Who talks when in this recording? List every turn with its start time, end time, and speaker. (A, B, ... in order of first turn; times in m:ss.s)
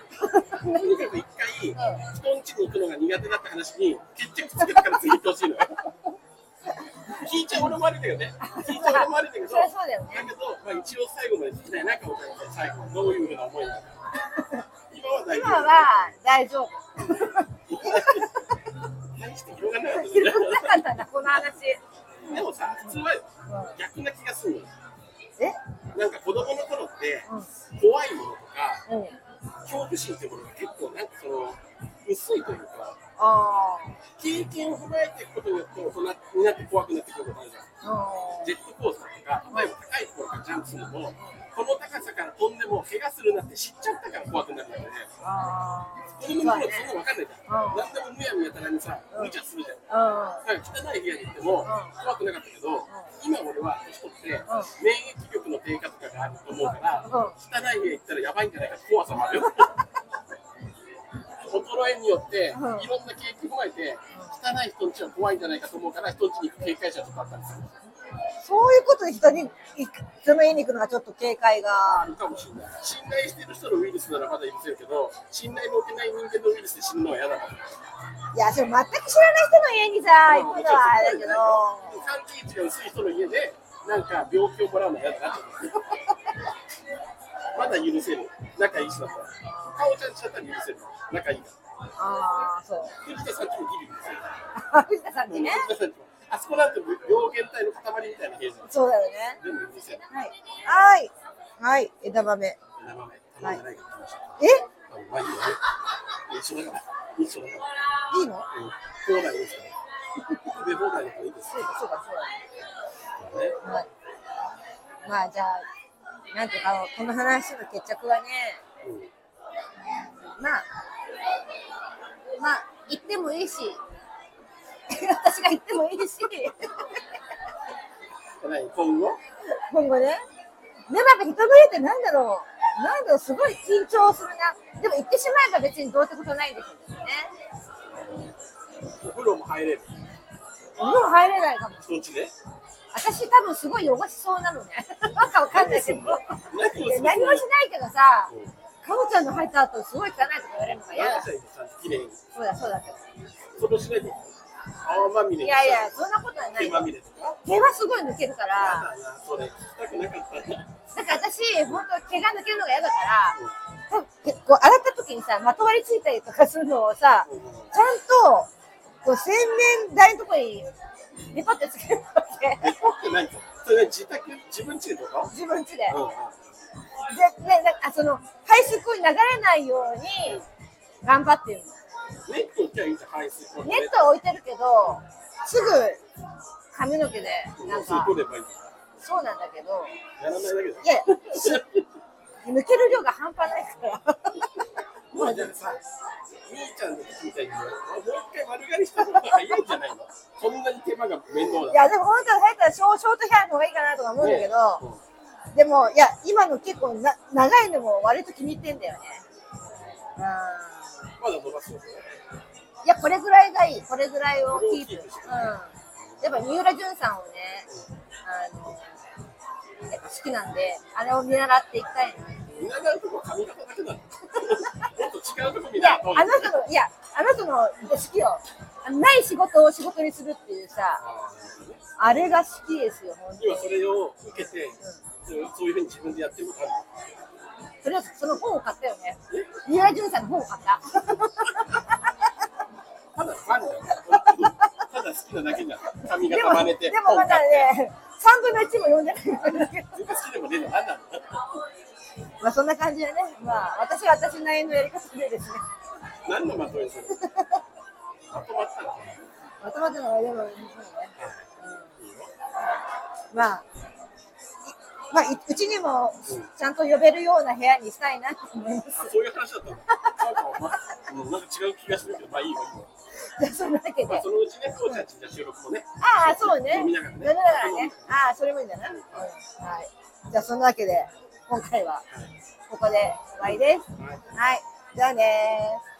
0:00.2-0:01.0 A
0:00.6-0:05.8 B
0:01.7-0:02.0 A
0:04.6-0:05.0 A
0:07.1-0:13.9 B
0:08.4-0:10.3 A
0:14.4-0:14.6 A
0:14.9-0:16.1 B
0:15.3-0:18.6 A
0:17.0-0:18.3 B
0:19.1-0:21.0 B
0:19.9-0:23.8 A
0:22.2-0:24.7 B
0:25.9-0:28.8 B
0:28.9-0:29.2 A
0:29.6-0:33.0 B
0:33.2-0:34.0 A
0:34.2-0:37.7 B
0:37.8-0:38.5 A
0:38.4-0:45.1 B
0:45.2-0:46.9 A
0:46.1-0:49.8 B
0:47.5-0:47.9 A
0:49.1-0:49.4 A
0:49.9-0:50.4 A
0:50.4-0:59.7 B
0:51.6-0:51.9 A
0:56.7-0:57.4 A
1:01.4-1:07.8 B
1:02.5-1:02.9 A
1:08.4-1:12.0 A
1:11.8-1:17.7 B
1:18.3-1:22.0 A
1:20.2-1:26.0 B
1:27.5-1:31.6 B
1:29.5-1:29.8 A
1:32.0-1:33.0 A
1:33.0-1:34.3 B
1:34.5-1:35.6 A
1:35.3-1:38.7 B
1:38.6-1:39.4 A
1:39.4-1:40.0 B
1:40.1-1:42.6 A
1:42.8-1:45.6 B
1:44.4-1:44.7 A
1:46.3-1:47.7 B
1:48.1-1:48.5 A
1:48.5-1:49.7 B
1:50.5-1:51.6 B
1:51.5-1:52.4 A
1:53.2-1:53.6 B
1:55.0-1:55.6 A
1:56.3-1:58.6 A
1:58.8-1:59.1 B
2:00.4-2:00.6 A
2:02.4-2:03.8 A
2:04.9-2:07.0 A
2:08.4-2:09.2 B
2:09.7-2:10.2 A
2:10.9-2:17.3 A
2:17.9-2:18.3 B
2:19.0-2:20.0 B
2:20.8-2:21.8 A
2:21.8-2:22.3 B
2:22.9-2:31.3 A
2:25.4-2:27.5 B
2:30.9-2:32.2 B
2:32.3-2:33.0 A
2:33.6-2:36.0 B
2:35.4-2:36.9 A
2:36.6-2:37.4 B
2:37.4-2:38.9 A
2:38.5-2:41.8 B
2:40.9-2:43.4 A
2:43.9-2:48.5 A
2:47.2-2:47.7 B
2:49.0-2:50.7 A
2:51.3-2:52.8 A
2:52.6-2:55.3 B
2:55.3-2:56.0 A
2:55.9-2:56.4 B
2:57.0-3:00.4 A
3:01.0-3:01.7 A
3:02.2-3:04.0 B
3:03.6-3:06.0 A
3:06.7-3:08.1 A
3:07.6-3:08.6 B
3:09.0-3:09.9 A
3:10.2-3:11.8 B
3:10.8-3:11.6 A
3:12.4-3:15.8 A
3:15.1-3:15.8 B
3:16.5-3:21.9 B
3:21.7-3:24.8 A
3:24.2-3:25.0 B
3:25.5-3:29.2 A
3:30.2-3:31.1 A
3:31.2-3:32.1 B
3:32.8-3:37.7 A
3:34.5-3:36.5 B
3:38.2-3:39.0 A
3:39.9-3:42.6 A
3:42.5-3:46.6 B
3:45.8-3:51.0 A
3:51.0-3:52.3 B
3:52.0-3:53.7 A
3:53.4-3:56.9 B
3:54.3-3:55.0 A
3:57.8-4:02.0 A
4:03.1-4:07.7 B
4:04.2-4:04.7 A
4:06.2-4:10.1 A
4:09.9-4:11.4 B
4:12.4-4:15.6 A
4:16.2-4:17.2 B
4:17.2-4:17.6 A
4:18.3-4:19.2 B
4:19.6-4:21.9 A
4:21.2-4:21.5 B
4:22.0-4:22.3 B
4:23.3-4:23.6 A
4:24.7-4:29.1 A
4:28.9-4:32.9 B
4:29.9-4:30.4 A
4:33.2-4:34.3 A
4:34.0-4:38.1 B
4:36.0-4:42.0 A
4:38.8-4:39.3 B
4:42.7-4:45.8 A
4:43.4-4:44.2 B